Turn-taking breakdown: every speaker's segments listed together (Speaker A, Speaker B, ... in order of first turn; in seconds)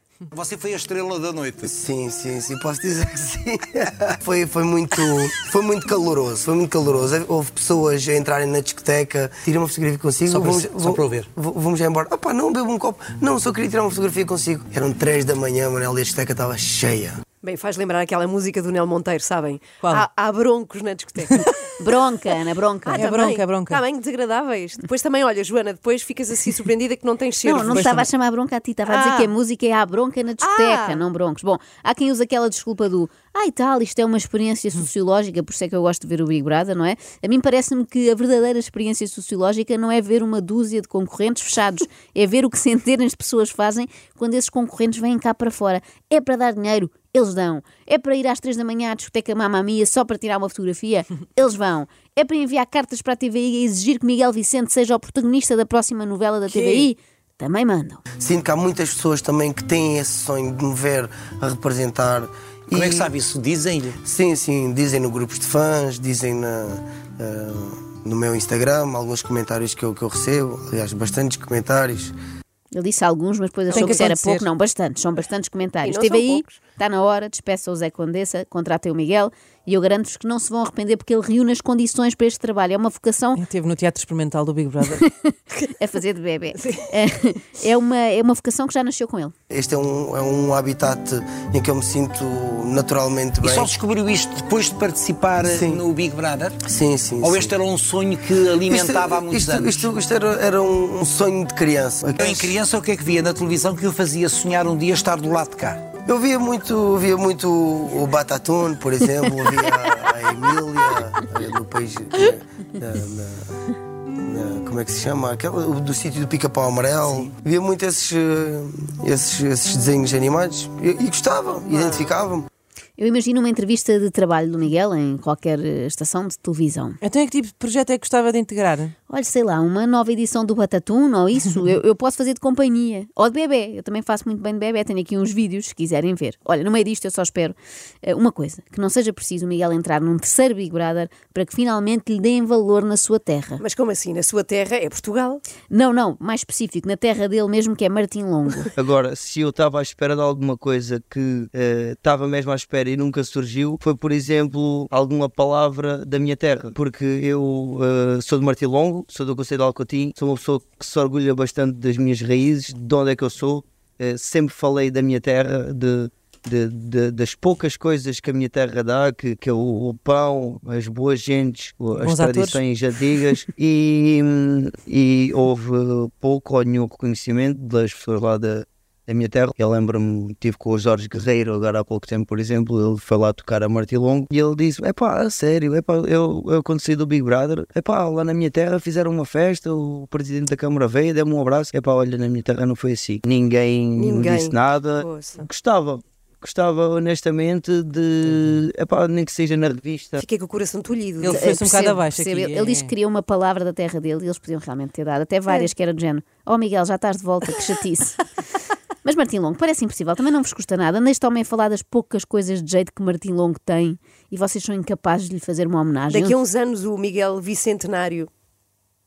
Speaker A: 0.3-1.7, 10.3-11.3, 62.7-64.0, 93.4-96.6, 97.2-99.9, 102.1-105.8
Speaker B: 1.6-17.2, 58.2-63.1, 64.0-72.1, 89.5-93.7, 95.5-95.8, 96.6-97.5, 98.7-102.5, 106.0-113.5, 114.2-122.5
Speaker C: 17.4-21.5, 22.8-28.1, 28.9-29.3, 30.4-31.0, 73.7-74.1, 75.8-76.6, 86.5-86.9, 121.6-122.1, 143.6-145.4, 193.9-195.5, 200.2-201.9, 216.1-218.3
Speaker D: 19.8-20.1, 23.0-23.8, 73.8-74.5, 83.3-85.0, 127.0-128.9, 172.0-172.6, 201.2-202.9
Speaker E: 21.8-23.1, 27.4-58.0, 72.7-83.4, 84.9-89.3, 123.0-127.0, 129.1-143.6, 145.7-148.7, 201.3-208.2, 209.0-216.4
Speaker F: 148.8-200.2